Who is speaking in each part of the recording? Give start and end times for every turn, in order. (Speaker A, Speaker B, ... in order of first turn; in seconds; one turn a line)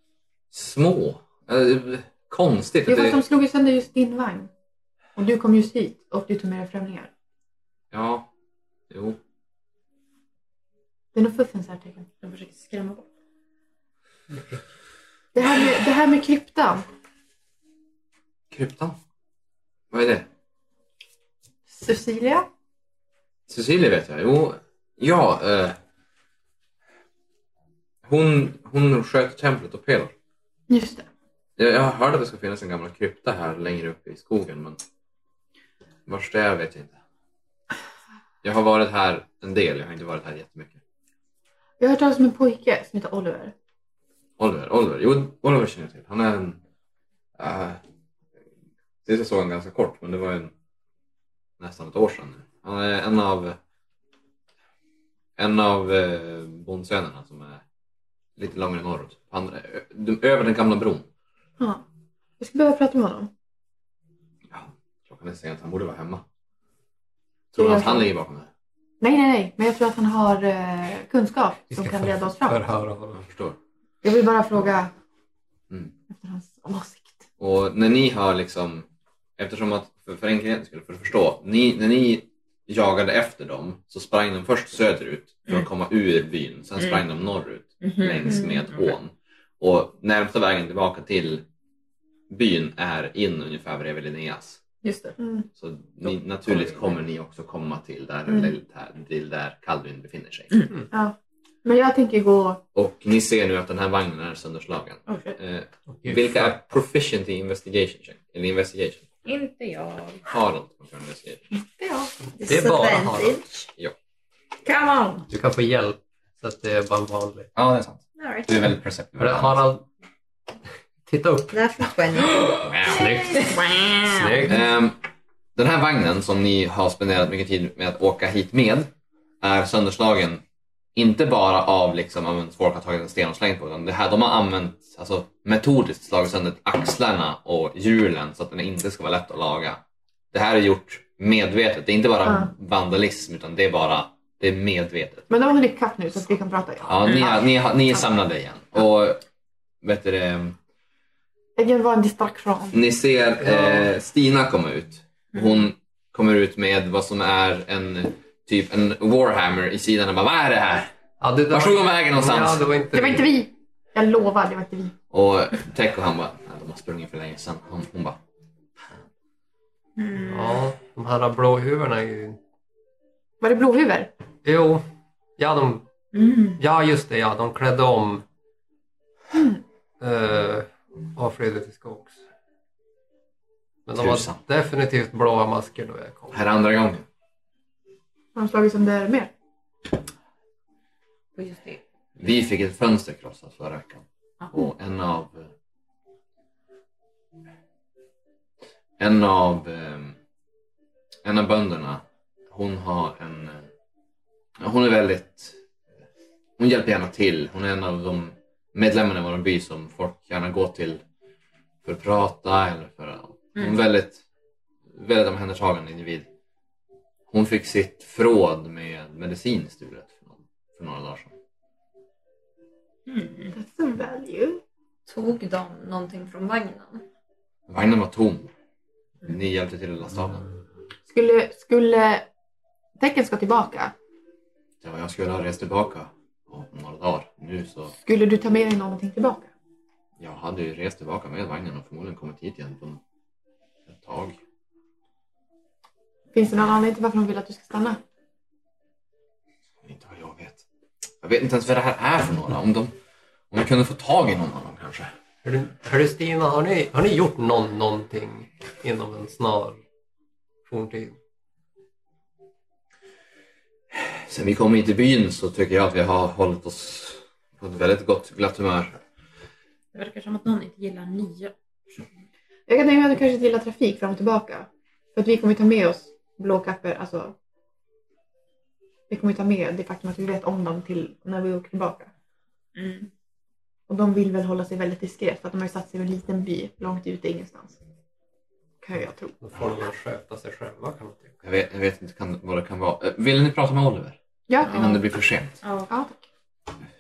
Speaker A: 0.5-3.2
Speaker B: 2.9-4.5
Speaker B: 5.2-7.1
Speaker A: 7.9-8.3
Speaker A: 8.9-9.2
Speaker B: 11.1-12.1
Speaker C: 12.2-13.1
Speaker B: 15.3-16.8
Speaker A: 18.5-19.0
Speaker A: 19.9-20.3
Speaker B: 21.7-22.5
Speaker A: 23.5-25.8
Speaker A: 28.0-30.1
Speaker B: 30.7-31.1
Speaker A: 31.6-34.8
Speaker A: 36.1-37.0
Speaker A: 38.4-40.8
Speaker B: 41.8-43.5
Speaker A: 44.4-46.6
Speaker A: 47.4-47.8
Speaker A: 49.0-50.5
Speaker A: 51.6-53.6
Speaker A: 55.4-57.6
Speaker A: 58.4-61.1
Speaker B: 62.4-63.3
Speaker A: 64.5-66.2
Speaker A: 67.5-68.5
Speaker B: 67.6-68.1
Speaker B: 69.0-72.6
Speaker D: 71.7-73.2
Speaker A: 73.2-73.6
Speaker B: 74.0-74.9
Speaker B: 76.1-77.2
Speaker A: 77.4-78.9
Speaker A: 79.4-91.5
Speaker C: 87.9-88.3
Speaker A: 92.3-94.6
Speaker C: 94.8-95.1
Speaker B: 95.2-95.5
Speaker A: 95.6-100.6
Speaker B: 100.9-102.6
Speaker A: 102.8-109.0
Speaker C: 105.1-105.4
Speaker D: 106.0-106.7
Speaker C: 109.2-110.2
Speaker A: 110.3-111.4
Speaker B: 111.5-112.1
Speaker E: 112.4-113.7
Speaker D: 112.4-113.4
Speaker C: 114.6-115.3
Speaker D: 115.3-117.5
Speaker A: 117.6-119.6
Speaker E: 118.2-118.5
Speaker D: 119.2-119.8
Speaker D: 121.1-121.6
Speaker E: 121.5-122.7
Speaker A: 122.4-123.1
Speaker D: 122.9-123.5
Speaker E: 123.3-123.6
Speaker C: 123.5-124.4
Speaker D: 124.1-124.6
Speaker A: 124.5-125.0
Speaker A: 125.6-128.9
Speaker A: 129.4-130.4
Speaker A: 130.9-139.8
Speaker A: 140.3-145.3
Speaker B: 145.3-148.1
Speaker A: 146.8-149.2
Speaker A: 149.8-150.6
Speaker B: 151.6-152.8
Speaker A: 152.7-160.9
Speaker D: 153.4-153.9
Speaker D: 161.2-163.3
Speaker A: 161.5-162.6
Speaker B: 162.9-164.9
Speaker A: 165.1-168.2
Speaker C: 170.0-170.6
Speaker D: 170.2-172.4
Speaker B: 173.4-174.1
Speaker D: 174.4-174.8
Speaker D: 175.4-175.9
Speaker C: 176.1-176.6
Speaker D: 176.5-178.2
Speaker D: 180.0-182.2
Speaker D: 183.9-186.4
Speaker A: 184.0-184.4
Speaker A: 186.3-187.1
Speaker B: 188.3-189.3
Speaker C: 191.4-191.8
Speaker A: 192.2-195.5
Speaker A: 199.0-200.2
Speaker A: 201.2-203.7
Speaker A: 204.6-205.6
Speaker A: 206.6-211.0
Speaker A: 211.8-214.2
Speaker A: 214.9-216.3
Speaker A: 217.3-221.3
Speaker C: 223.1-223.5
Speaker B: 223.5-224.6
Speaker E: 225.1-227.1
Speaker A: 227.7-228.5
Speaker A: 229.2-230.5
Speaker B: 231.1-232.3
Speaker B: 233.0-233.9
Speaker A: 234.8-237.9
Speaker B: 238.0-239.5
Speaker A: 240.2-243.0
Speaker A: 243.9-244.4
Speaker B: 246.3-248.0
Speaker A: 249.8-250.6
Speaker A: 251.2-252.9
Speaker A: 253.5-255.1
Speaker D: 255.4-259.8
Speaker D: 260.7-261.2
Speaker A: 263.9-269.0
Speaker C: 269.9-271.5
Speaker B: 272.7-277.4
Speaker B: 279.1-282.1
Speaker C: 282.8-283.1
Speaker B: 283.9-287.8
Speaker B: 288.8-289.4
Speaker D: 289.4-291.3
Speaker A: 291.4-295.6
Speaker B: 294.5-295.0
Speaker C: 295.6-295.9
Speaker B: 295.9-296.2